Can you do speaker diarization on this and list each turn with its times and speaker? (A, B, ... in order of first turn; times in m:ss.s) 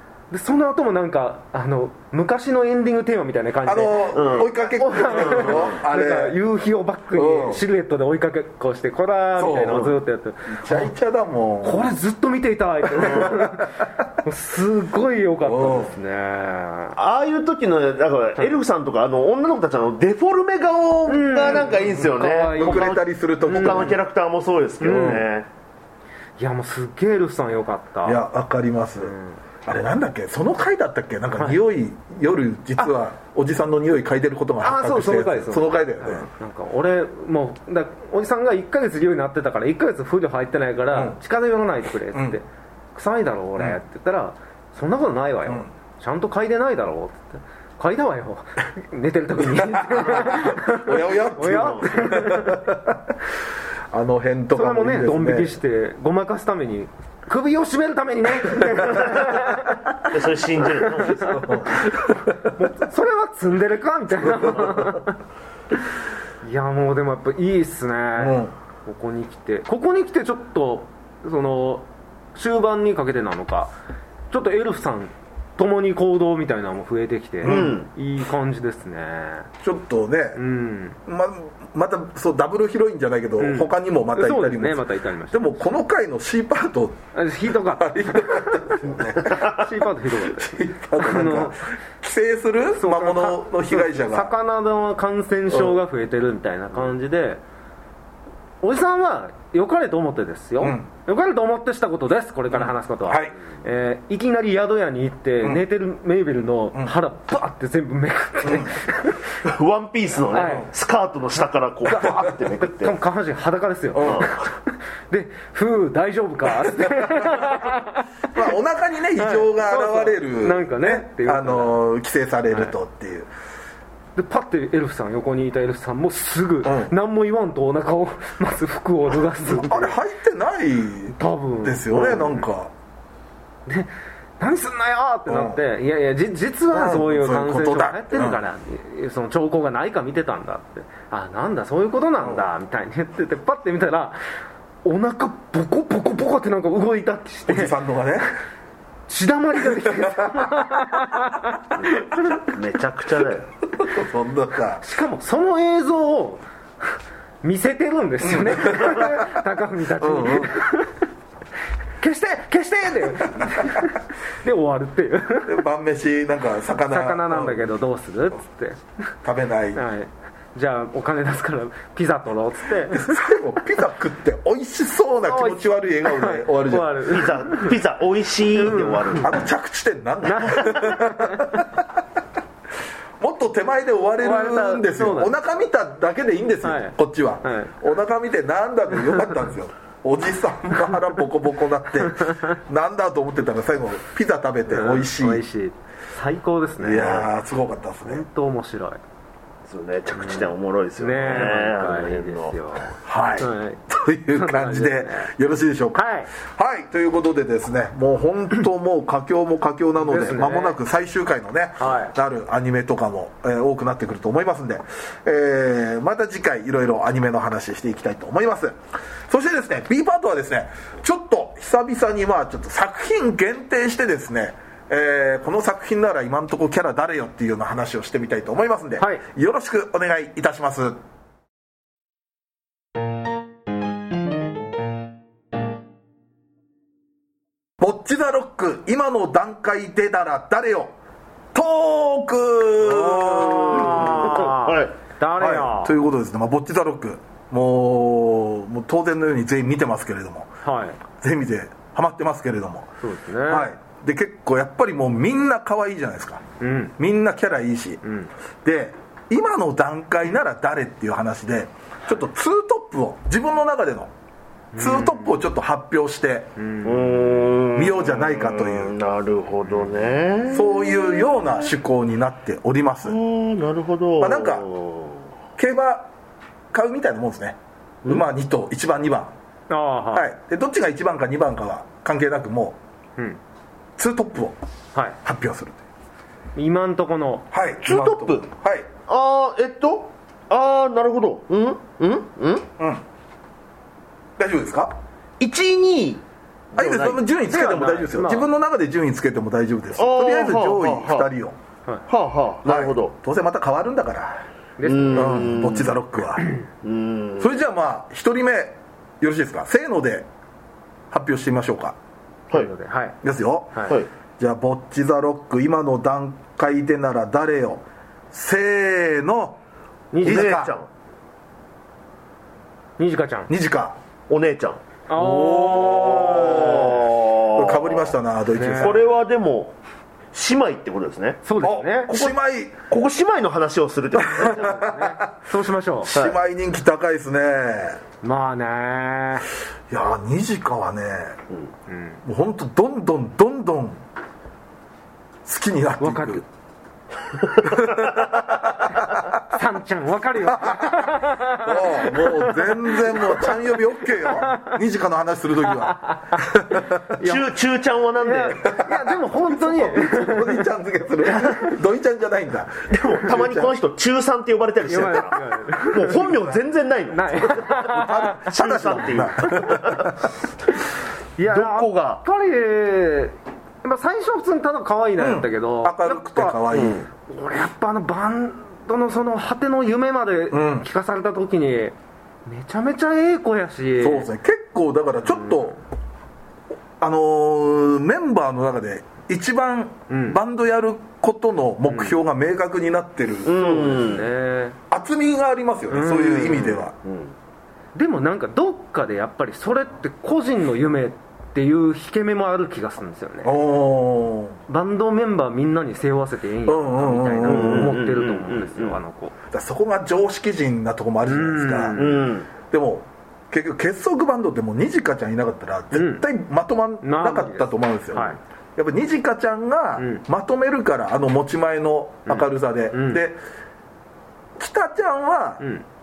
0:00.3-0:10.9 A
0:03.7-0:06.4 B
0:04.1-0:04.5 C
0:05.2-0:05.7 C
0:07.1-0:07.6 B
0:09.4-0:10.0 B
0:10.5-0:11.9 B
0:11.6-0:17.0 A
0:13.0-0:13.8 B
0:15.4-0:15.9 B
0:17.0-0:25.5 C
0:21.1-0:24.0 A
0:22.5-0:24.0 B
0:24.8-0:25.2 A
0:24.9-0:25.2 B
0:26.4-0:28.2 A
0:28.0-0:36.3 B
0:29.0-0:29.4 A
0:34.6-0:52.7 A
0:40.9-0:41.2 B
0:42.1-0:42.4 B
0:49.4-0:53.0 B
0:51.4-0:52.2 C
0:53.9-0:55.6 B
0:54.5-1:00.0 A
1:00.0-1:01.5 C
1:00.7-1:01.8 A
1:01.1-1:02.5 B
1:02.4-1:05.2 A
1:04.4-1:04.9 B
1:06.4-1:13.7 A
1:08.2-1:08.5 B
1:14.3-1:19.5 A
1:17.4-1:17.8 B
1:17.4-1:17.9 C
1:19.6-1:20.4 B
1:20.4-1:21.0 A
1:21.1-1:27.0 B
1:23.4-1:25.7 A
1:27.1-1:31.6 A
1:27.6-1:34.3 B
1:32.8-1:37.4 A
1:35.5-1:35.8 B
1:38.6-1:49.4 A
1:40.6-1:40.9 B
1:42.5-1:43.4 B
1:48.4-1:48.8 B
1:49.4-1:53.0 C
1:50.3-1:50.7 A
1:51.9-1:58.3 A
1:54.0-1:54.3 B
1:54.0-1:54.3 C
1:56.6-1:57.4 B
1:58.3-2:03.3 B
1:59.2-2:01.8 A
2:04.2-2:09.9 A
2:06.6-2:06.9 B
2:09.5-2:12.7 B
2:11.2-2:12.4 A
2:13.7-2:24.2 A
2:15.3-2:15.6 B
2:16.7-2:18.4 B
2:24.8-2:27.8 A
2:27.5-2:28.3 B
2:29.1-2:32.4 A
2:29.6-2:30.7 B
2:31.8-2:33.5 C
2:33.8-2:34.8 B
2:34.8-2:41.0 A
2:38.2-2:39.4 B
2:40.0-2:40.5 B
2:42.0-2:45.6 A
2:43.4-2:43.8 B
2:45.5-2:47.6 B
2:46.9-2:48.8 A
2:49.2-2:49.8 B
2:49.7-2:53.2 A
2:52.9-2:57.0 B
2:55.3-2:57.8 A
2:57.1-2:59.4 C
2:58.6-2:59.4 A
2:59.2-3:01.8 B
3:00.2-3:01.7 A
3:03.2-3:15.4 B
3:04.2-3:05.3 A
3:06.6-3:07.7 A
3:12.2-3:12.6 A
3:14.7-3:17.3 A
3:16.8-3:18.2 B
3:18.0-3:19.0 A
3:19.7-3:22.6 C
3:20.2-3:25.3 A
3:23.0-3:38.8 B
3:25.9-3:26.3 A
3:30.0-3:30.8 A
3:31.8-3:32.2 A
3:39.3-3:51.0 B
3:49.0-3:49.2 A
3:57.8-4:00.9 B
4:01.5-4:04.4 B
4:02.8-4:04.9 C
4:03.7-4:06.0 A
4:05.4-4:10.5 B
4:10.6-4:11.0 A
4:11.2-4:12.9 B
4:13.0-4:13.7 A
4:13.5-4:16.4 B
4:16.6-4:17.0 A
4:17.0-4:18.0 B
4:18.0-4:18.3 A
4:18.6-4:24.1 B
4:24.7-4:25.4 A
4:24.8-4:26.5 B
4:26.6-4:27.5 A
4:26.8-4:31.6 C
4:27.7-4:29.0 B
4:30.5-4:33.2 B
4:33.1-4:35.2 C
4:34.2-4:34.6 B
4:35.6-4:36.1 B
4:36.7-4:39.3 B
4:39.7-4:40.3 A
4:40.1-4:42.8 B
4:44.0-4:44.6 B
4:45.2-4:45.8 B
4:46.6-4:47.5 A
4:47.5-4:48.9 B
4:47.8-4:48.5 C
4:49.1-4:52.7 C
4:54.4-4:55.0 B
4:55.4-4:56.2 C
4:56.7-4:57.2 C
4:56.8-5:01.6 B
4:57.4-4:58.5 A
5:00.0-5:01.3 C
5:02.1-5:03.1 C
5:02.6-5:04.4 B
5:04.8-5:05.5 A
5:04.8-5:06.0 C
5:05.1-5:06.5 B
5:06.8-5:07.6 C
5:07.4-5:10.3 B
5:11.1-5:12.0 B
5:12.5-5:13.2 A
5:13.2-5:19.6 B
5:20.1-5:20.7 A
5:20.2-5:20.8 B
5:20.2-5:20.9 C
5:23.0-5:23.5 A
5:23.5-5:24.0 B
5:24.3-5:24.8 C
5:25.1-5:27.0 A
5:25.1-5:29.1 B
5:25.7-5:28.1 C
5:28.5-5:29.0 A
5:28.8-5:29.8 C
5:30.3-5:31.4 C
5:31.4-5:32.1 A
5:31.6-5:32.8 B
5:32.1-5:32.4 C
5:32.9-5:34.8 C
5:34.2-5:35.2 B
5:34.4-5:36.2 A
5:36.0-5:38.0 B
5:38.2-5:39.5 A
5:39.9-5:41.4 B
5:41.9-5:42.2 A
5:42.2-5:44.0 B
5:45.4-5:46.4 B
5:46.0-5:46.4 A
5:47.6-5:49.4 B
5:49.0-5:53.5 A
5:50.4-5:57.0 B
5:54.4-5:54.8 A
5:55.8-5:56.4 A
5:57.1-5:57.5 A
5:57.2-5:58.7 C
5:58.2-6:00.6 A
5:58.6-6:03.7 B
6:01.4-6:01.7 A
6:02.9-6:10.2 C
6:04.8-6:06.6 A
6:07.1-6:08.5 A
6:07.8-6:10.3 B
6:11.4-6:24.3 A
6:11.4-6:12.2 C
6:15.2-6:17.1 B
6:16.7-6:17.0 C
6:20.5-6:20.9 B
6:24.0-6:25.8 B
6:25.3-6:25.7 A
6:27.0-6:34.2 B
6:30.1-6:30.4 A
6:31.9-6:32.2 A
6:33.5-6:34.3 C
6:33.6-6:34.8 A
6:34.9-6:37.0 B
6:35.9-6:36.9 A
6:37.0-6:37.3 C
6:38.0-6:43.5 A
6:43.4-6:44.6 B
6:44.7-6:49.3 A
6:46.7-6:48.0 B
6:47.4-6:49.0 C
6:49.5-6:52.0 B
6:51.3-6:52.3 A
6:52.0-6:52.5 C
6:52.7-7:03.4 B
6:55.9-6:56.3 A
6:57.0-6:58.4 A
7:00.0-7:00.2 A
7:02.3-7:03.2 A
7:04.6-7:05.6 B
7:05.6-7:05.8 A